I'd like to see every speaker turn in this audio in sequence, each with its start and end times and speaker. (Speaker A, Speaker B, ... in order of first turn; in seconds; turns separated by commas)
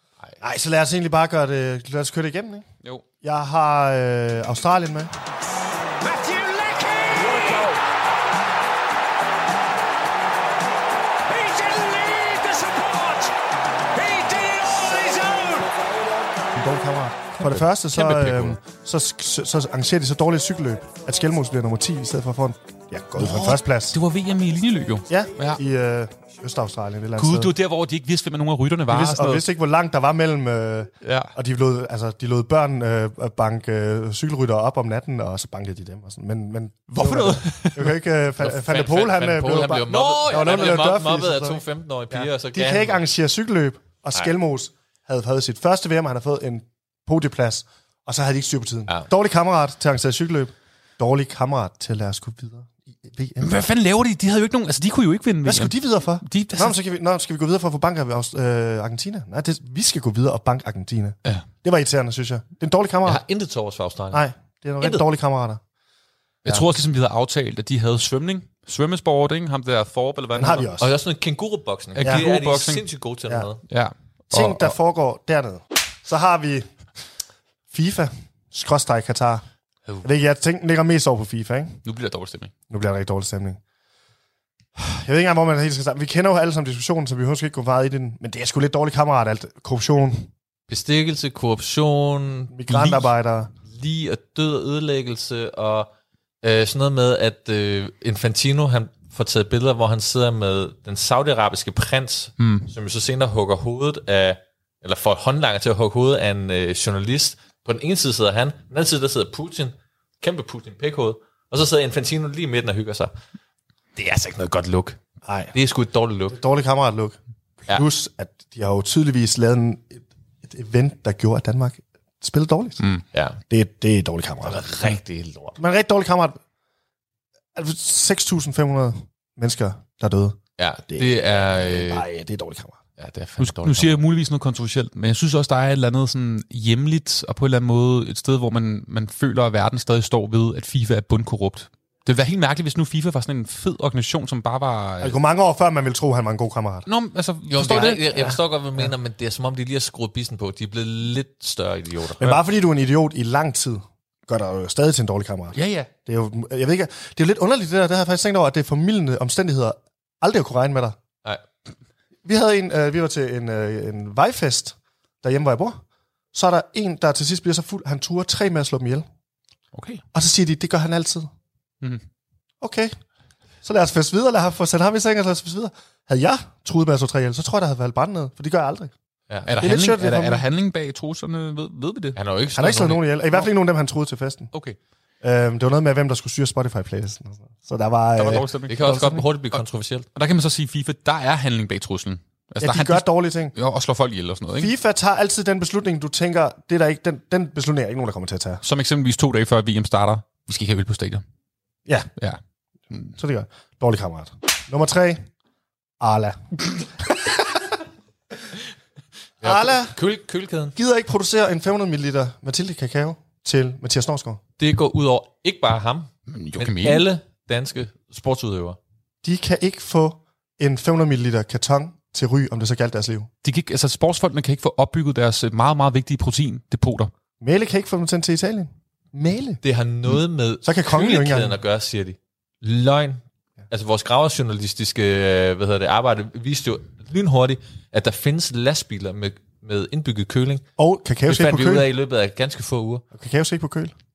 Speaker A: 0.4-2.6, Speaker A: 3.2-5.1, Speaker B: 6.1-7.8, Speaker B: 11.3-13.3, Speaker B: 14.0-15.7, Speaker A: 16.5-24.0, Speaker C: 17.4-18.6, Speaker D: 23.1-25.6, Speaker A: 25.1-27.5, Speaker D: 27.2-29.4, Speaker A: 28.9-53.6, Speaker D: 31.0-31.3, Speaker D: 36.9-38.0, Speaker C: 38.4-43.1, Speaker D: 39.8-40.8, Speaker D: 53.4-56.8, Speaker A: 55.4-63.2, Speaker C: 63.0-64.2, Speaker A: 64.1-65.6, Speaker C: 64.8-65.0, Speaker D: 66.4-70.7, Speaker A: 70.3-70.9, Speaker C: 70.8-73.6, Speaker D: 71.9-72.8, Speaker A: 72.0-72.2, Speaker D: 73.7-74.7, Speaker A: 74.3-76.7, Speaker A: 77.7-79.4, Speaker A: 80.0-81.8, Speaker D: 81.8-82.5, Speaker A: 82.7-83.6, Speaker A: 84.8-90.3, Speaker C: 90.7-92.5, Speaker A: 92.5-93.5, Speaker D: 92.7-93.1, Speaker C: 93.6-95.9, Speaker C: 96.4-113.1, Speaker D: 102.4-102.7, Speaker C: 114.0-115.0, Speaker A: 115.2-115.5, Speaker C: 115.5-116.4, Speaker A: 116.3-122.8, Speaker C: 123.1-123.4, Speaker A: 123.5-124.9, Speaker C: 124.5-125.6, Speaker A: 125.5-126.4, Speaker A: 127.5-132.8, Speaker C: 130.6-132.1, Speaker C: 133.0-134.0, Speaker D: 133.4-145.2, Speaker A: 145.0-146.9, Speaker D: 146.8-148.1, Speaker C: 147.5-152.4, Speaker A: 147.6-148.9, Speaker A: 152.2-161.0, Speaker D: 155.5-155.9, Speaker A: 162.2-165.8, Speaker A: 166.3-169.1, Speaker D: 169.7-170.0, Speaker A: 170.1-171.3, Speaker A: 172.6-172.9, Speaker A: 173.6-178.9, Speaker D: 179.4-182.2, Speaker A: 179.6-180.4, Speaker C: 182.1-183.1, Speaker A: 182.5-184.5, Speaker A: 185.2-189.2, Speaker D: 188.2-189.6, Speaker C: 188.7-190.1, Speaker D: 190.1-194.7, Speaker A: 192.6-193.5, Speaker A: 194.6-198.6, Speaker D: 198.6-201.2, Speaker A: 203.1-205.2, Speaker A: 206.0-206.8, Speaker C: 209.4-210.8, Speaker A: 209.4-210.0, Speaker A: 210.8-214.4, Speaker C: 214.6-218.8, Speaker D: 216.3-217.1, Speaker A: 219.2-223.3, Speaker D: 223.4-227.1, Speaker A: 227.4-229.6, Speaker C: 229.6-240.6, Speaker A: 230.6-231.6, Speaker A: 240.8-241.9, Speaker C: 241.2-243.0, Speaker A: 243.1-243.9